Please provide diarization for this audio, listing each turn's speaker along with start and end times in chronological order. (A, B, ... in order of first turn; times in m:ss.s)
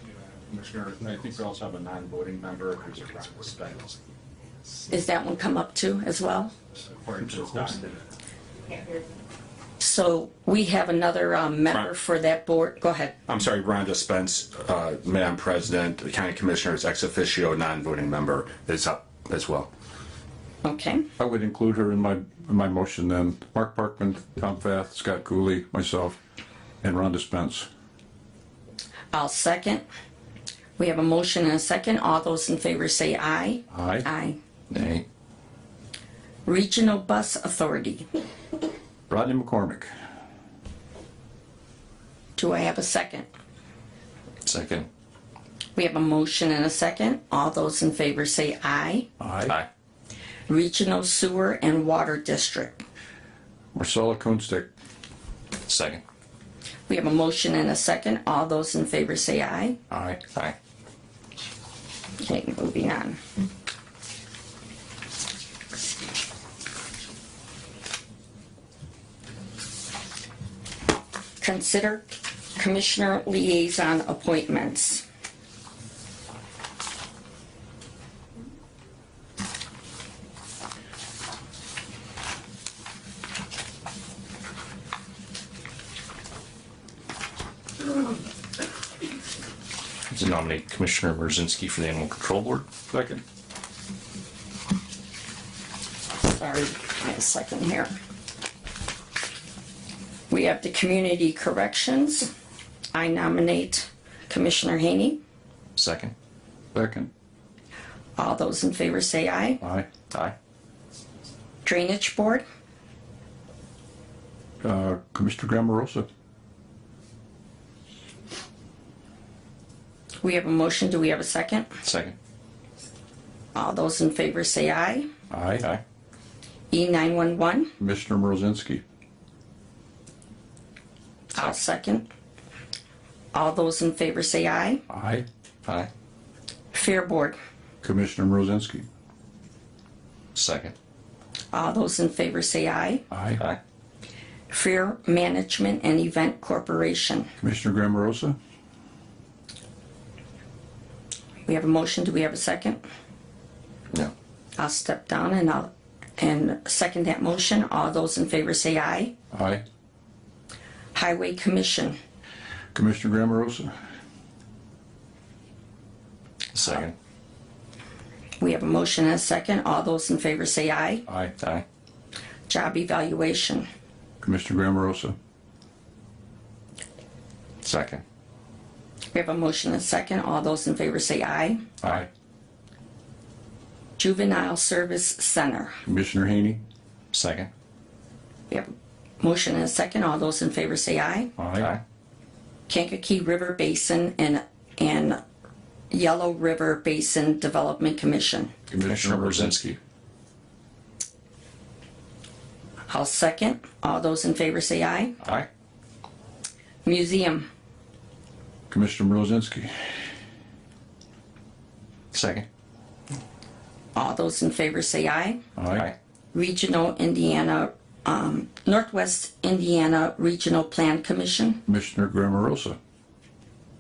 0:00.5-0:04.0 A
0:04.9-0:06.5 B
0:07.0-0:08.0 A
0:09.8-0:13.1 B
0:13.3-0:19.7 A
0:20.6-0:21.0 B
0:21.2-0:26.2 C
0:26.8-0:27.7 C
0:29.1-0:29.8 B
0:30.8-0:34.4 B
0:33.7-0:34.0 C
0:34.7-0:35.0 D
0:36.4-0:38.1 B
0:39.1-0:39.9 C
0:42.4-0:43.3 B
0:44.4-0:44.9 D
0:45.8-0:49.1 B
0:49.2-0:49.6 C
0:50.5-0:52.8 B
0:53.7-0:54.7 C
0:55.7-0:56.0 D
0:56.9-0:59.8 B
0:59.9-1:00.2 C
1:02.2-1:03.2 B
1:11.4-1:15.0 B
1:30.1-1:32.7 D
1:32.9-1:33.2 C
1:36.2-1:38.0 B
1:40.3-1:42.3 B
1:42.9-1:45.2 B
1:45.8-1:46.1 D
1:46.7-1:47.1 C
1:48.2-1:49.6 B
1:49.6-1:49.9 C
1:51.6-1:52.4 B
1:54.6-1:56.0 C
2:00.2-2:01.7 B
2:01.8-2:02.1 D
2:03.6-2:05.1 B
2:05.3-2:05.7 C
2:06.7-2:07.7 B
2:07.8-2:08.8 C
2:11.3-2:12.1 B
2:13.3-2:14.8 B
2:14.9-2:15.2 C
2:15.6-2:15.9 D
2:16.7-2:17.4 B
2:17.8-2:18.8 C
2:20.3-2:20.7 D
2:21.5-2:23.0 B
2:23.1-2:23.4 C
2:24.5-2:27.3 B
2:27.4-2:28.4 C
2:31.5-2:32.8 B
2:34.6-2:39.1 B
2:39.3-2:39.6 C
2:40.9-2:42.0 B
2:42.7-2:43.7 C
2:46.5-2:46.9 D
2:48.4-2:51.0 B
2:51.1-2:51.3 C
2:51.4-2:51.6 D
2:52.5-2:53.7 B
2:54.2-2:55.2 C
2:57.6-2:58.0 D
2:59.1-3:01.7 B
3:04.0-3:05.8 B
3:05.8-3:06.6 C
3:07.1-3:07.5 D
3:08.5-3:11.3 B
3:11.4-3:11.7 C
3:12.7-3:15.2 B
3:15.9-3:18.5 B
3:18.7-3:19.6 C
3:18.8-3:19.8 D
3:22.9-3:25.2 B
3:25.2-3:25.5 D
3:26.8-3:27.5 B
3:28.7-3:29.8 C
3:32.1-3:32.5 D
3:33.9-3:35.4 B
3:35.6-3:35.9 C
3:36.3-3:41.6 B
3:41.7-3:42.8 C